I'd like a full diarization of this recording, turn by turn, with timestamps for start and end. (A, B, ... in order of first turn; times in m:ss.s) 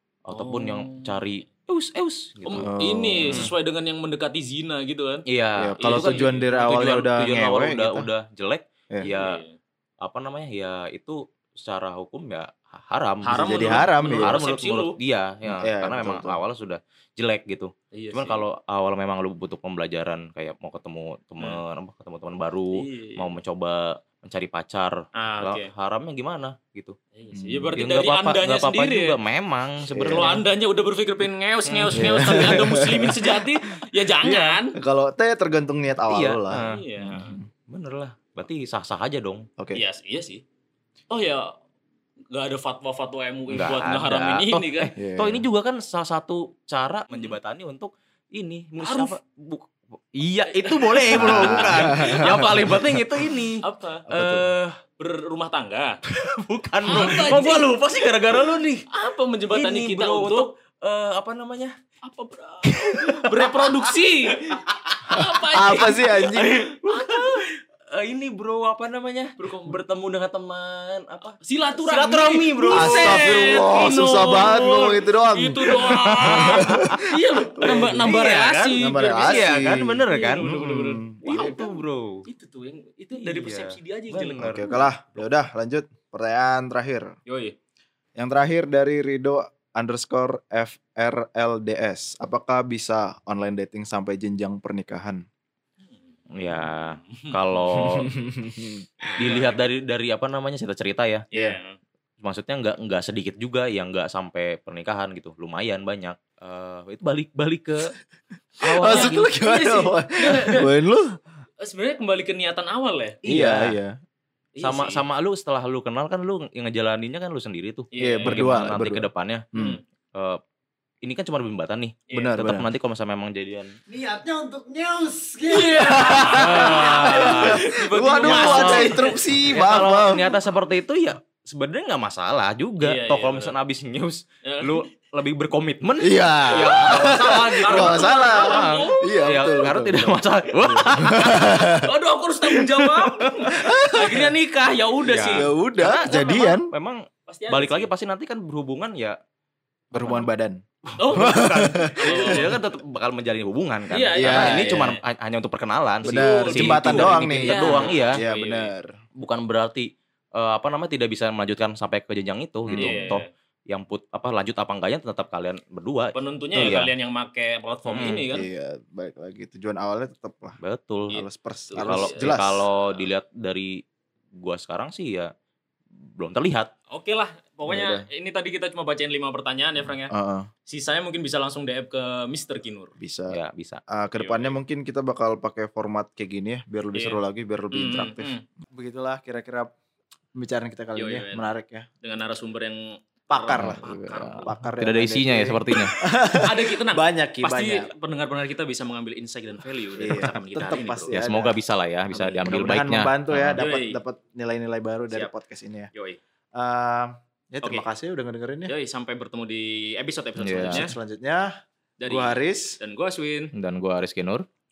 0:00.3-0:02.7 A
0:00.3-0:01.2 B
0:02.4-0:05.2 B
0:02.6-0:03.5 C
0:03.3-0:03.5 A
0:05.3-0:09.4 A
0:05.6-0:08.1 C
0:05.8-0:06.6 B
0:09.0-0:09.6 B
0:10.0-0:27.0 A
0:13.2-0:15.0 B
0:13.3-0:14.4 C
0:15.5-0:16.4 C
0:17.9-0:18.4 B
0:22.8-0:23.4 B
0:25.2-0:25.7 B
0:27.2-0:29.2 B
0:27.3-0:27.8 C
0:27.7-0:30.4 A
0:29.9-0:30.4 C
0:30.0-0:34.8 B
0:31.6-0:32.6 A
0:31.9-0:33.5 C
0:34.2-0:37.5 C
0:36.1-0:39.5 A
0:36.6-0:37.4 B
0:39.7-0:40.4 B
0:41.1-0:41.5 B
0:42.3-0:45.0 B
0:43.5-0:54.8 A
0:45.0-0:45.4 C
0:47.1-0:47.4 B
0:48.8-0:49.1 B
0:50.5-0:52.5 B
0:51.1-0:53.0 C
0:53.6-0:54.1 B
0:54.1-0:54.5 C
0:55.0-0:56.0 B
0:56.0-0:58.8 A
0:56.8-0:58.1 B
0:58.9-1:00.5 B
0:59.5-1:01.8 A
1:02.0-1:07.5 B
1:02.6-1:15.0 A
1:05.5-1:06.6 C
1:09.4-1:09.8 B
1:11.4-1:24.8 B
1:12.7-1:18.0 C
1:15.7-1:17.1 A
1:17.6-1:22.2 A
1:18.8-1:21.6 C
1:23.1-1:24.8 A
1:24.4-1:27.2 C
1:27.3-1:27.6 B
1:28.2-1:35.2 C
1:35.9-1:38.1 B
1:36.4-1:38.1 A
1:38.0-1:38.8 C
1:39.1-1:39.6 B
1:39.2-1:41.3 A
1:41.3-1:41.8 B
1:42.2-1:47.9 A
1:48.6-1:49.3 A
1:48.7-1:51.2 C
1:48.8-1:50.7 B
1:51.6-1:53.2 B
1:53.2-1:53.8 A
1:53.3-1:54.0 C
1:54.6-1:55.0 B
1:54.6-1:59.5 A
1:57.9-1:58.5 B
1:58.0-1:59.8 C
1:59.6-1:59.8 B
2:00.2-2:00.4 A
2:01.0-2:03.7 A
2:02.1-2:02.4 B
2:02.1-2:02.7 C
2:03.9-2:10.4 C
2:05.5-2:09.2 B
2:06.0-2:07.6 A
2:08.2-2:21.8 A
2:12.8-2:13.5 B
2:14.4-2:14.8 B
2:16.0-2:21.9 C
2:16.5-2:19.8 B
2:21.2-2:26.6 B
2:22.6-2:23.5 A
2:23.5-2:24.3 C
2:25.0-2:29.2 A
2:25.3-2:26.7 C
2:27.3-2:27.9 B
2:29.9-2:30.3 A
2:29.9-2:32.5 C
2:30.8-2:38.2 A
2:31.0-2:32.6 B
2:33.9-2:35.0 B
2:34.2-2:34.9 C
2:36.0-2:38.7 B
2:36.0-2:39.0 C
2:39.2-2:46.9 A
2:42.7-2:43.1 C
2:42.8-2:43.3 B
2:46.2-2:48.5 B
2:47.9-2:48.3 A
2:48.3-2:50.6 C
2:50.6-2:51.2 A
2:51.1-2:52.7 C
2:51.1-2:53.0 B
2:51.8-2:53.8 A
2:54.4-2:55.3 A
2:56.1-2:56.7 A
2:56.9-3:00.1 B
2:57.7-2:58.1 C
3:00.1-3:00.5 C
3:00.7-3:02.9 B
3:03.0-3:03.4 C
3:03.3-3:03.8 A
3:03.9-3:09.7 C
3:04.2-3:04.6 B
3:06.9-3:07.2 B
3:07.7-3:08.4 B
3:10.4-3:11.9 C
3:11.0-3:11.5 B
3:12.0-3:14.6 B
3:13.3-3:13.8 C
3:13.6-3:16.0 A
3:14.4-3:17.9 C
3:16.4-3:21.1 B
3:20.0-3:21.6 C
3:21.1-3:23.6 A
3:22.1-3:22.5 B
3:22.4-3:25.9 C
3:23.6-3:24.0 B
3:25.9-3:26.2 B
3:26.6-3:28.7 C
3:28.7-3:30.9 B
3:30.4-3:30.9 A
3:30.6-3:31.5 C
3:32.0-3:33.5 B
3:32.1-3:32.8 C
3:33.6-3:34.5 A